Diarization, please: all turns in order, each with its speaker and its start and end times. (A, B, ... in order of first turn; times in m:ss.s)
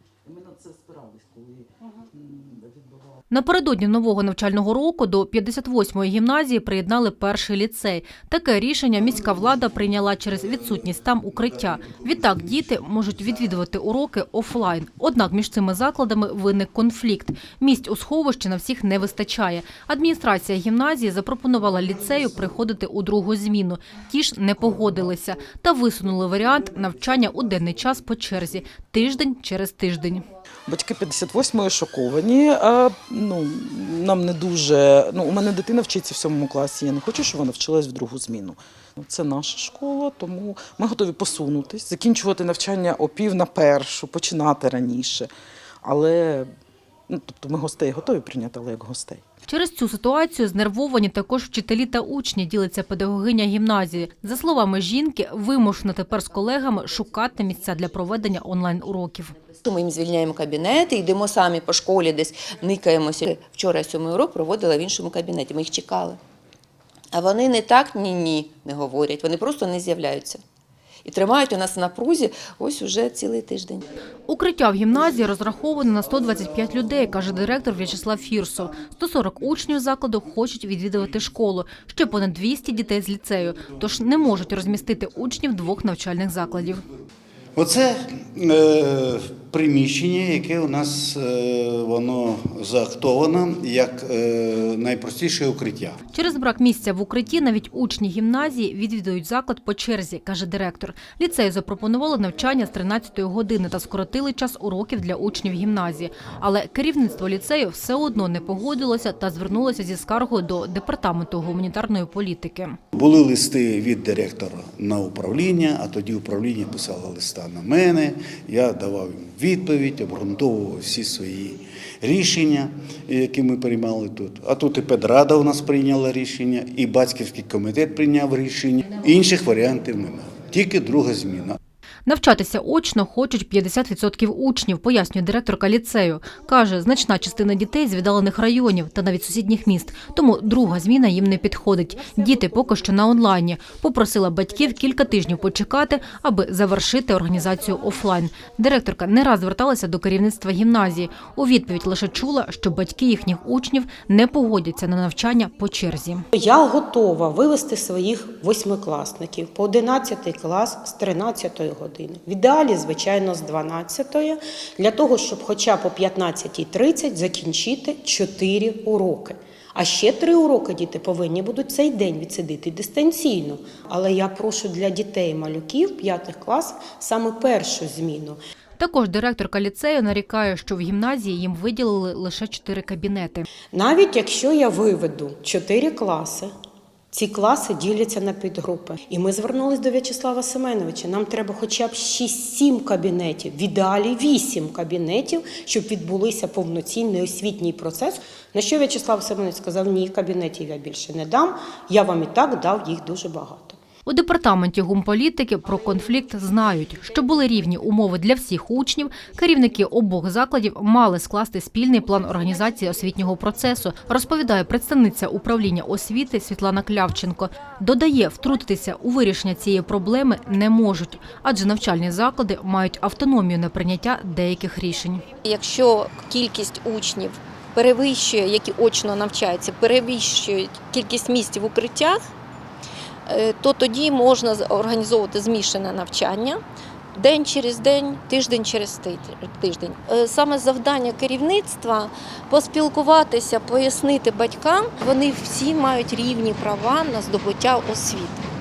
0:00.2-0:03.1 A
0:03.3-0:30.3 B
0:30.7-0:45.3 A
0:45.8-0:46.5 A
0:47.1-0:49.2 A
0:49.5-0:59.4 B
0:59.6-1:06.2 C
1:07.1-1:10.4 C
1:11.0-1:13.9 C
1:14.3-1:26.8 B
1:27.6-1:36.0 D
1:36.1-1:52.8 B
1:52.9-2:11.6 D
2:12.1-2:36.2 B
2:36.3-2:58.4 E
2:58.8-3:03.5 B
3:03.7-3:06.5 E
3:07.1-3:23.8 E
3:24.1-3:45.3 B
3:45.4-3:52.2 F
3:53.3-3:56.6 F
3:57.2-4:08.5 F